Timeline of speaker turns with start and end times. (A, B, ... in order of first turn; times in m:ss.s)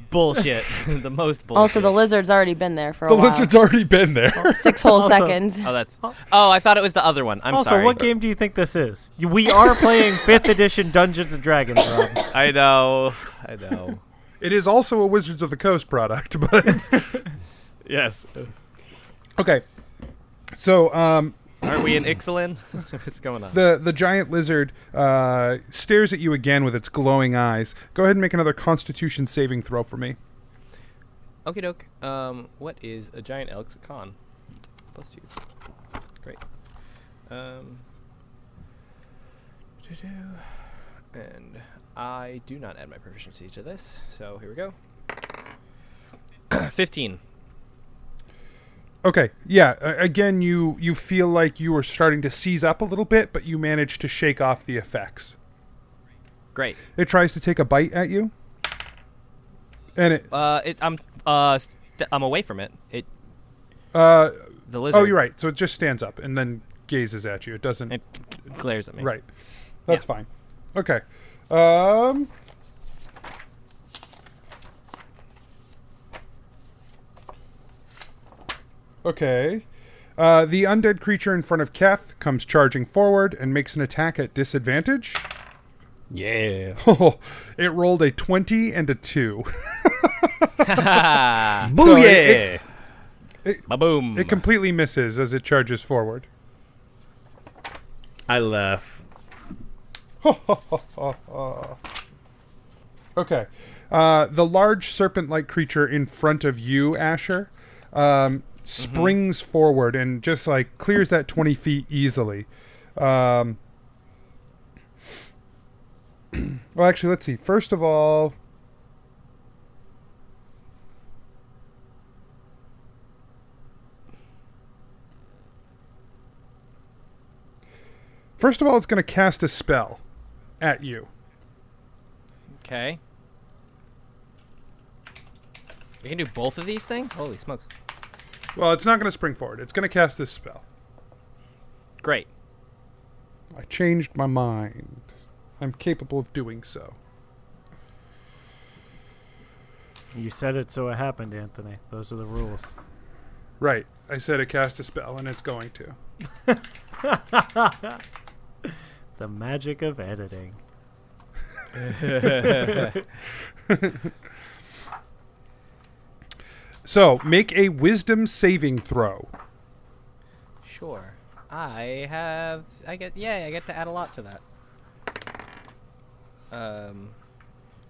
0:00.1-0:01.9 A
0:01.6-0:03.5 B
0:03.1-0:04.8 C
0:04.5-0:05.7 B
0:04.9-0:05.4 D
0:05.6-0:08.1 A
0:07.5-0:12.2 D
0:12.3-0:14.0 A
0:14.4-0:17.3 C
0:17.8-0:18.5 A
0:19.4-0:19.6 C
0:20.5-0:21.5 C
0:21.6-0:23.6 A
0:23.5-0:30.2 C
0:31.5-0:34.2 A
0:34.9-0:35.3 A
0:37.3-0:37.8 A
0:39.8-0:40.6 A
0:41.1-0:44.8 A
0:46.5-0:47.2 A
0:49.0-0:55.4 C
0:56.6-0:56.8 A
0:57.0-0:58.3 C
1:00.0-1:00.3 C
1:00.3-1:03.1 A
1:03.9-1:07.9 C
1:04.7-1:05.2 A
1:07.9-1:09.1 A
1:09.0-1:09.2 C
1:09.9-1:12.3 C
1:19.0-1:19.7 C
1:20.2-1:25.2 C
1:26.1-1:26.8 E
1:26.8-1:31.2 C
1:30.6-1:31.7 A
1:31.6-1:32.6 E
1:31.7-1:32.5 C
1:33.4-1:36.3 C
1:33.7-1:34.4 A
1:38.3-1:39.0 E
1:40.2-1:41.8 C
1:43.2-1:53.6 C
1:48.8-1:49.2 A
1:56.3-1:58.4 C
2:08.4-2:10.0 C
2:10.6-2:11.1 C
2:12.6-2:13.0 A
2:16.0-2:17.7 A
2:18.6-2:20.6 C
2:22.0-2:22.3 A
2:23.5-2:25.1 C
2:25.6-2:27.0 C
2:30.1-2:32.8 D
2:33.6-2:36.0 C
2:37.0-2:38.0 D
2:39.2-2:40.6 D
2:41.8-2:42.9 A
2:43.7-2:44.1 C
2:46.8-2:49.3 C
2:50.6-2:54.4 A
2:56.5-2:57.2 A